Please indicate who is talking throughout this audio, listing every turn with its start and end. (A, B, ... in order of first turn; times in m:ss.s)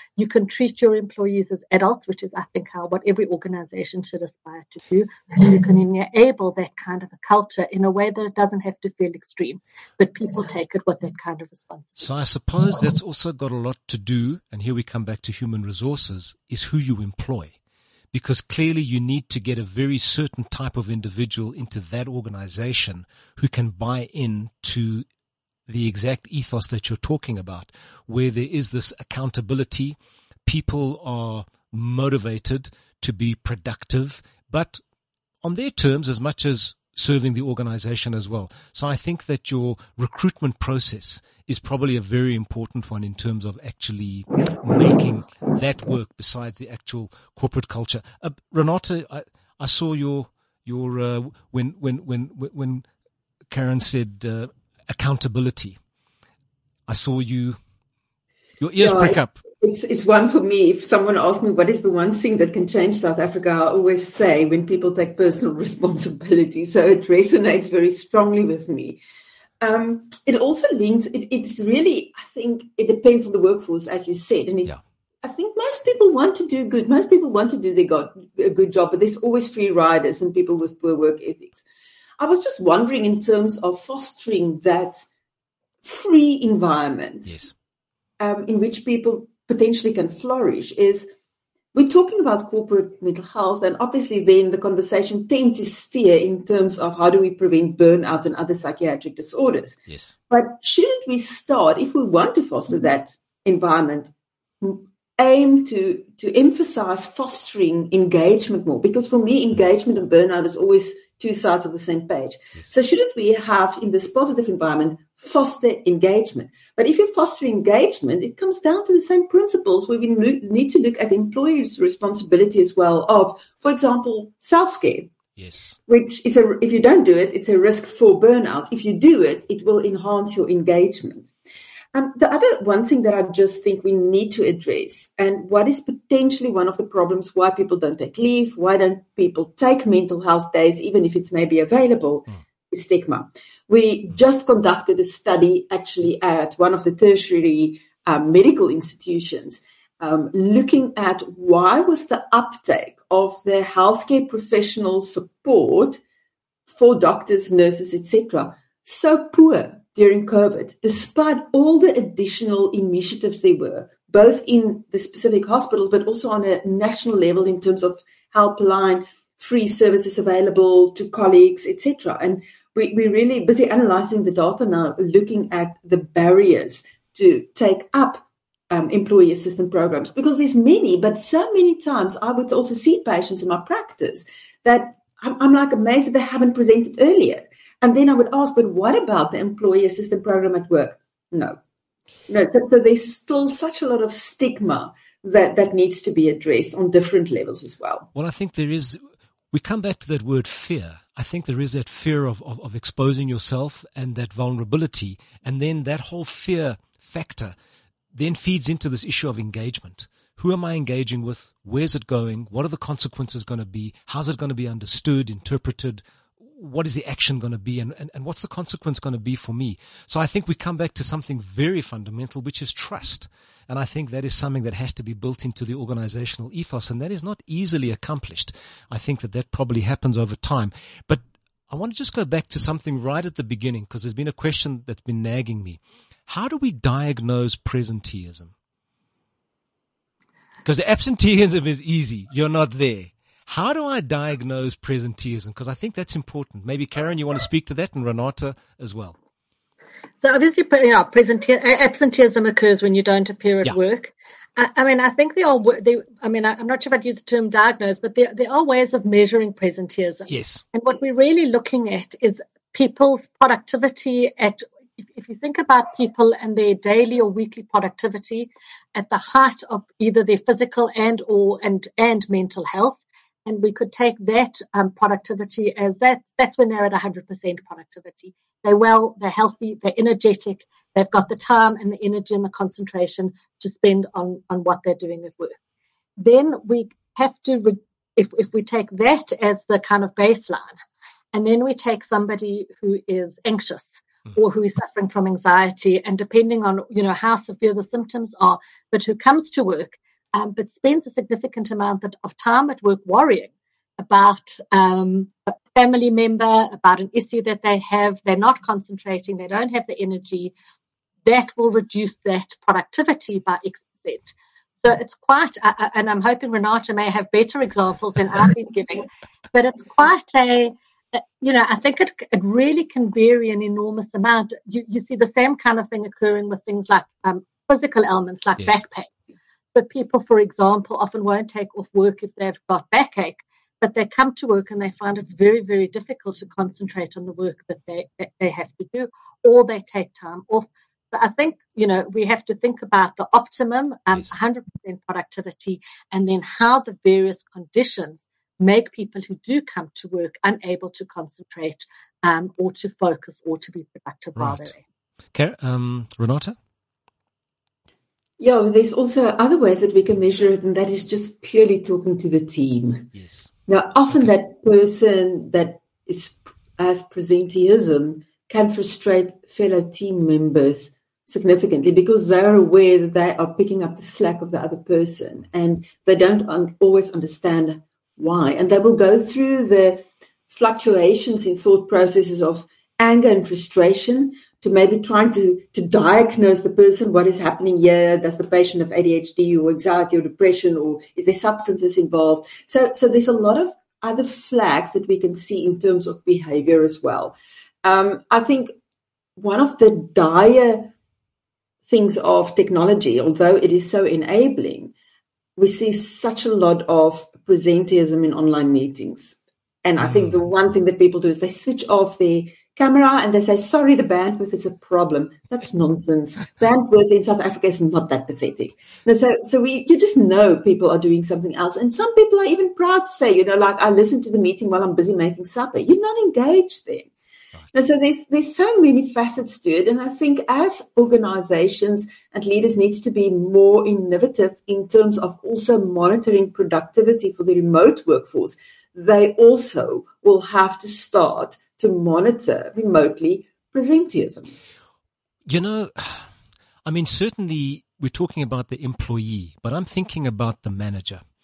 0:00.2-0:12.1 A
0:12.0-0:17.5 B
0:18.1-0:25.0 B
0:25.7-0:34.8 B
0:35.4-0:52.8 B
0:53.5-0:55.8 B
0:56.9-0:57.6 B
0:58.6-0:59.4 B
0:58.8-1:09.0 C
1:09.6-1:21.6 C
1:22.2-1:25.0 C
1:25.8-1:27.4 C
1:28.2-1:31.1 C
1:31.7-1:39.8 C
1:39.9-1:40.1 B
1:40.3-2:05.1 C
2:05.4-2:05.8 B
2:05.9-2:11.3 C
2:11.9-2:36.0 C
2:36.7-3:11.6 C
3:12.3-3:18.1 C
3:18.1-3:19.0 B
3:19.5-3:27.5 B
3:28.1-3:58.5 B
4:00.6-4:09.2 B
4:10.2-4:45.6 A
4:20.3-4:20.6 B
4:46.2-4:50.7 A
4:51.3-5:10.5 A
5:11.2-5:29.1 A
5:29.7-5:54.8 A
5:54.4-5:54.7 B
5:55.3-5:56.5 B
5:58.4-6:03.1 C
6:03.1-6:03.5 B
6:03.7-6:38.7 C
6:39.4-6:40.9 C
6:41.9-6:44.9 C
6:45.6-7:07.1 C
6:50.0-6:50.4 B
7:07.7-7:24.6 C
7:25.5-7:26.3 B
7:26.8-7:31.2 B